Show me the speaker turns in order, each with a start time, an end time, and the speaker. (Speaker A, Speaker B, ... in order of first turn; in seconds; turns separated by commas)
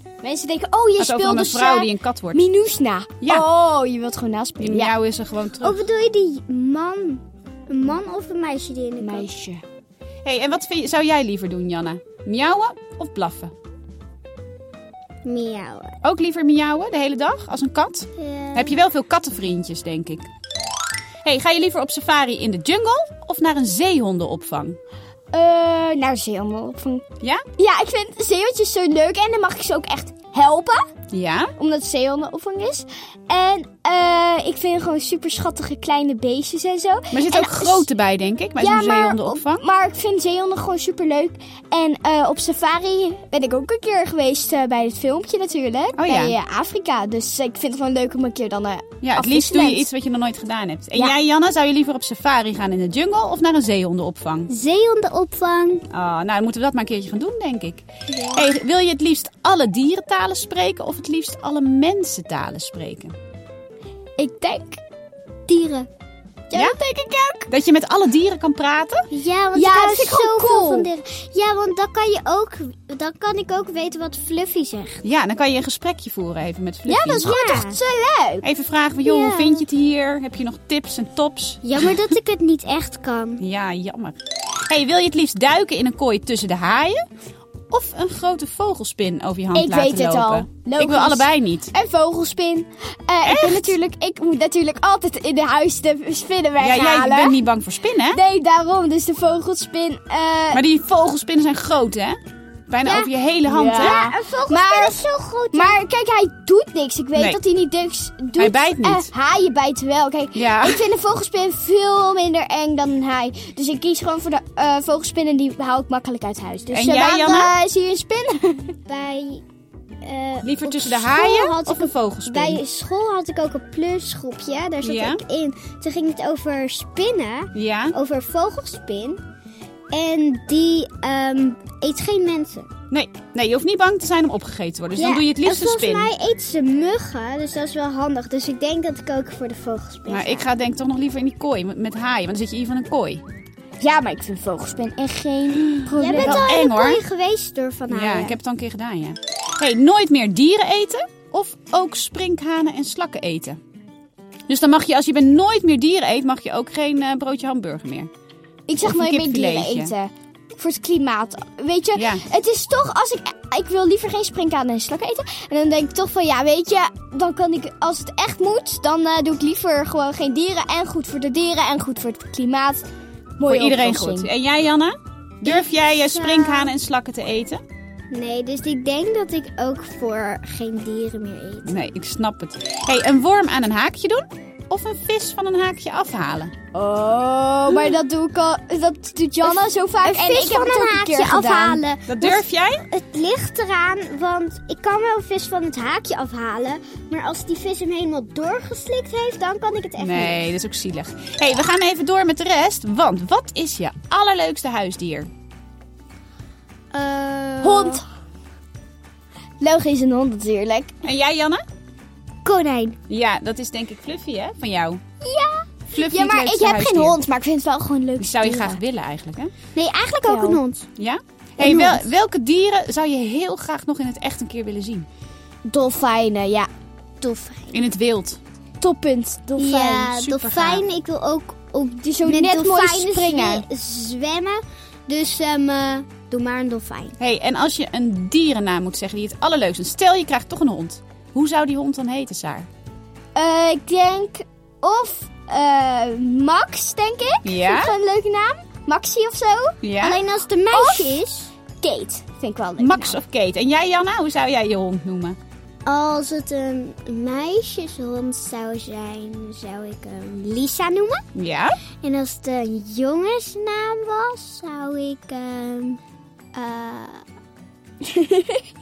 Speaker A: 0.2-5.0, Speaker B: 1.0-2.4, Speaker B: 4.6-5.8, Speaker C: 5.6-9.3, Speaker A: 9.0-9.6, Speaker B: 10.2-13.5, Speaker C: 15.2-15.9, Speaker B: 16.0-20.3, Speaker C: 18.2-18.8, Speaker B: 21.2-24.8, Speaker A: 25.3-27.0, Speaker A: 27.6-30.8, Speaker B: 31.1-31.5, Speaker A: 31.6-37.9, Speaker B: 37.1-39.6, Speaker A: 38.6-49.9, Speaker B: 46.0-46.4, Speaker B: 49.0-54.5, Speaker C: 54.5-55.8, Speaker B: 55.9-63.1, Speaker C: 58.1-58.4, Speaker A: 64.2-64.8, Speaker C: 65.5-65.9, Speaker A: 66.5-67.5, Speaker B: 67.5-69.0, Speaker C: 69.1-75.0, Speaker A: 69.5-70.9, Speaker B: 75.0-77.3, Speaker A: 76.9-78.5, Speaker C: 77.2-77.8, Speaker B: 78.4-82.0, Speaker C: 79.0-79.6, Speaker C: 81.6-83.4, Speaker B: 83.4-84.2, Speaker B: 84.7-87.0, Speaker B: 87.7-91.7, Speaker A: 89.5-97.5, Speaker B: 93.2-93.7, Speaker B: 96.6-98.2, Speaker A: 98.1-100.6, Speaker B: 100.5-102.2, Speaker B: 102.7-104.1, Speaker A: 102.8-118.7, Speaker C: 103.7-105.8, Speaker B: 108.4-109.1, Speaker B: 110.3-110.9, Speaker B: 116.7-117.5, Speaker C: 118.9-119.4, Speaker C: 120.0-129.2, Speaker B: 120.4-122.6, Speaker B: 124.8-125.2, Speaker B: 127.5-128.0, Speaker C: 129.9-132.7, Speaker B: 132.9-136.1, Speaker C: 134.9-140.5, Speaker B: 140.1-143.2, Speaker A: 143.8-146.5, Speaker C: 146.0-148.4, Speaker B: 146.0-147.0, Speaker B: 147.9-153.6, Speaker B: 154.5-158.1, Speaker A: 158.7-172.8, Speaker B: 158.8-159.9, Speaker B: 161.9-162.2, Speaker A: 173.4-174.3, Speaker B: 173.4-177.6, Speaker C: 176.1-176.7, Speaker C: 178.1-181.8, Speaker B: 181.7-186.5, Speaker A: 186.7-191.8, Speaker B: 187.7-188.0, Speaker C: 189.4-200.5, Speaker B: 192.1-192.8, Speaker B: 200.0-205.3, Speaker C: 206.9-208.0, Speaker A: 207.6-208.0, Speaker A: 209.6-210.9, Speaker B: 211.0-211.6, Speaker C: 212.4-213.0, Speaker B: 213.1-215.0, Speaker C: 215.2-215.7, Speaker B: 215.9-217.2, Speaker A: 215.9-218.8, Speaker B: 218.2-219.5, Speaker C: 219.8-220.9, Speaker A: 220.2-220.6, Speaker B: 221.0-225.1, Speaker C: 221.6-222.1, Speaker A: 225.7-226.7, Speaker C: 227.2-227.8, Speaker B: 227.7-228.4, Speaker A: 228.8-230.1, Speaker C: 229.6-237.2, Speaker B: 230.2-230.9, Speaker A: 232.0-233.7, Speaker B: 237.2-242.7, Speaker A: 243.3-249.8, Speaker B: 247.4-247.9, Speaker B: 249.8-250.2, Speaker C: 250.0-251.5, Speaker A: 250.7-251.2, Speaker A: 251.8-253.2, Speaker B: 252.8-255.4, Speaker C: 255.9-261.2, Speaker B: 261.4-261.8, Speaker C: 262.0-266.0, Speaker C: 266.5-267.2, Speaker A: 268.2-268.4